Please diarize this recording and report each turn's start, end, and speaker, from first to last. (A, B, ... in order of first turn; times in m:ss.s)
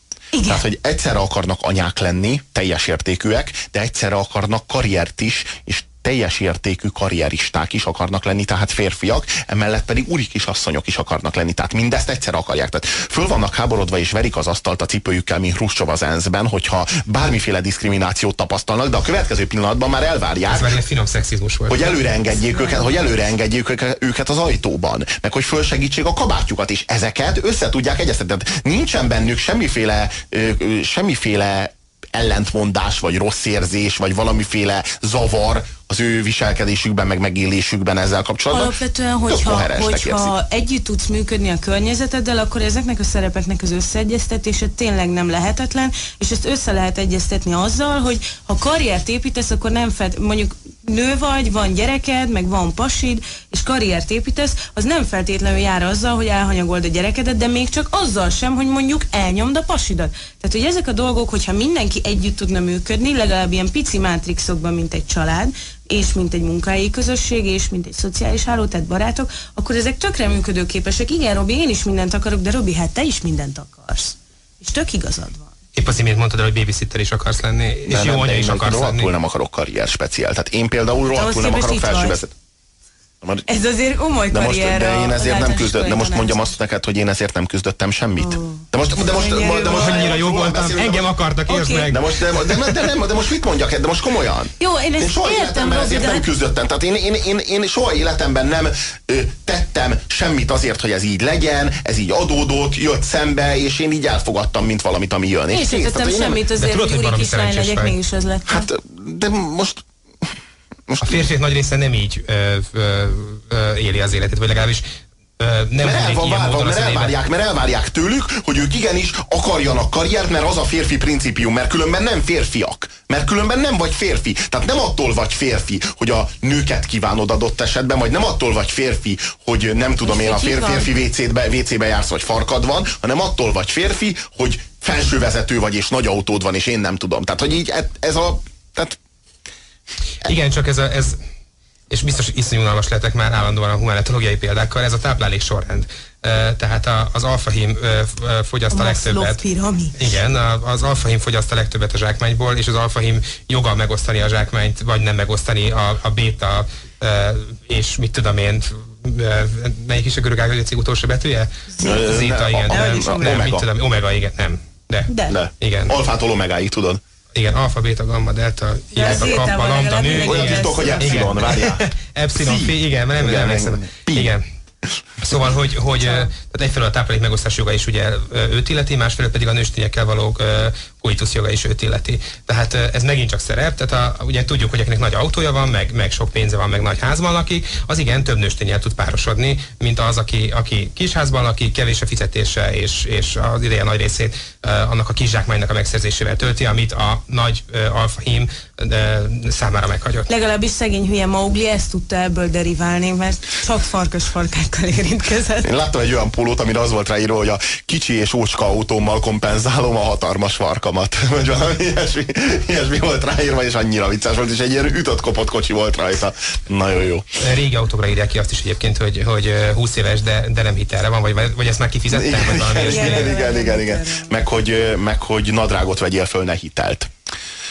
0:00.3-0:00.6 A
0:00.5-0:20.7 B
0:20.5-0:21.9 C
0:21.7-0:38.8 B
0:22.5-0:22.9 A
0:38.5-1:15.5 A
0:39.3-0:40.3 B
1:15.8-1:19.1 C
1:17.9-1:22.3 B
1:21.1-1:22.2 A
1:23.5-1:26.5 A
1:24.3-1:31.1 B
1:28.2-1:30.2 A
1:29.6-1:32.8 C
1:31.5-1:31.9 A
1:31.9-1:46.4 B
1:34.6-1:36.2 A
1:45.5-1:48.7 A
1:46.6-1:48.0 C
1:48.5-1:50.3 B
1:50.9-1:51.3 B
1:51.0-1:54.8 C
1:55.4-1:57.2 C
1:55.8-2:19.0 B
2:10.0-2:10.9 A
2:20.2-2:21.2 C
2:21.9-2:29.4 C
2:28.7-2:30.0 A
2:30.0-2:46.0 C
2:41.7-2:42.1 A
2:41.8-2:43.7 B
2:42.7-2:43.4 A
2:45.1-2:45.4 A
2:45.3-2:47.0 B
2:47.4-2:54.4 C
2:48.9-2:51.4 A
2:49.0-2:49.4 B
2:50.2-2:54.3 B
2:55.2-3:20.3 C
3:20.3-3:25.7 A
3:25.6-3:37.3 B
3:37.4-3:43.3 C
3:42.1-3:47.1 B
3:42.8-3:44.3 A